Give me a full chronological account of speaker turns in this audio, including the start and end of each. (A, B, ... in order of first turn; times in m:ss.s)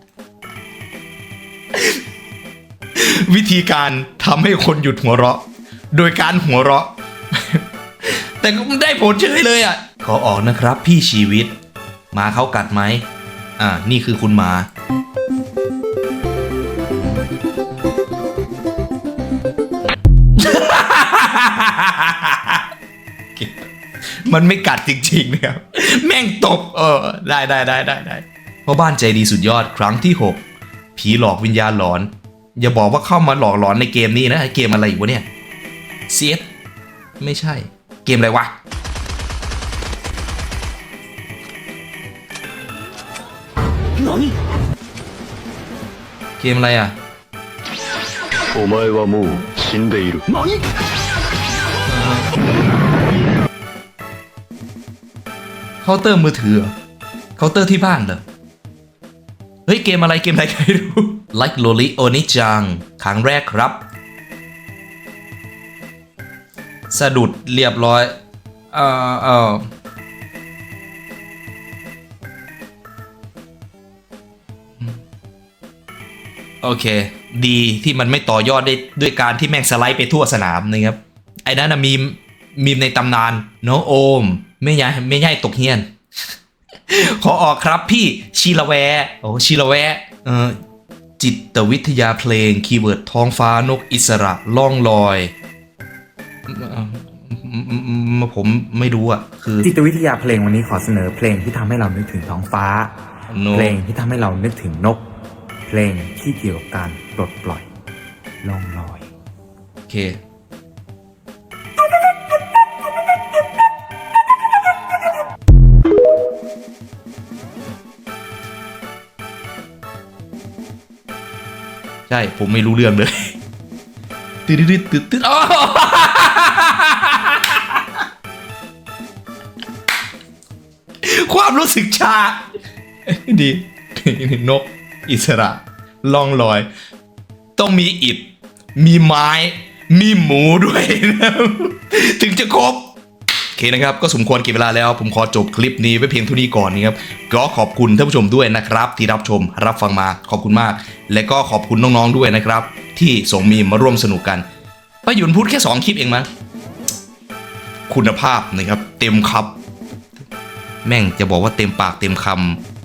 0:02.9-0:11.5 A
0:12.1-0:13.0 A
0:13.6-0:14.7 A
0:20.3-0:22.6 A
0:23.3-0:23.7 A
0:24.2-0:30.4 A
0:31.0-0:35.2 A
0:36.1-0:36.5 A
0:37.2-0:38.6 A
0:46.4-0:46.9 A
0:48.5-0:50.5 B
0:51.9-0:52.2 A
0:55.8-0:56.7 A
0:57.4-0:58.2 A
0:59.7-1:03.8 A
1:06.9-1:08.2 A
1:08.7-1:09.7 A
1:16.6-1:25.9 A
1:26.9-1:30.6 A
1:31.2-1:35.3 A
1:36.5-1:39.7 A
1:39.6-1:42.9 C
1:43.3-1:43.8 A
1:43.5-1:45.0 C
1:45.6-1:47.7 C
1:48.4-1:49.1 C
1:49.9-1:50.2 A
2:02.1-2:03.3 A
2:04.5-2:07.8 A
2:11.0-2:12.4 A
2:13.1-2:16.7 A
2:17.6-2:23.0 A
2:23.5-2:34.4 A
2:35.0-2:36.3 A
2:37.9-2:39.6 A
2:40.8-2:42.6 A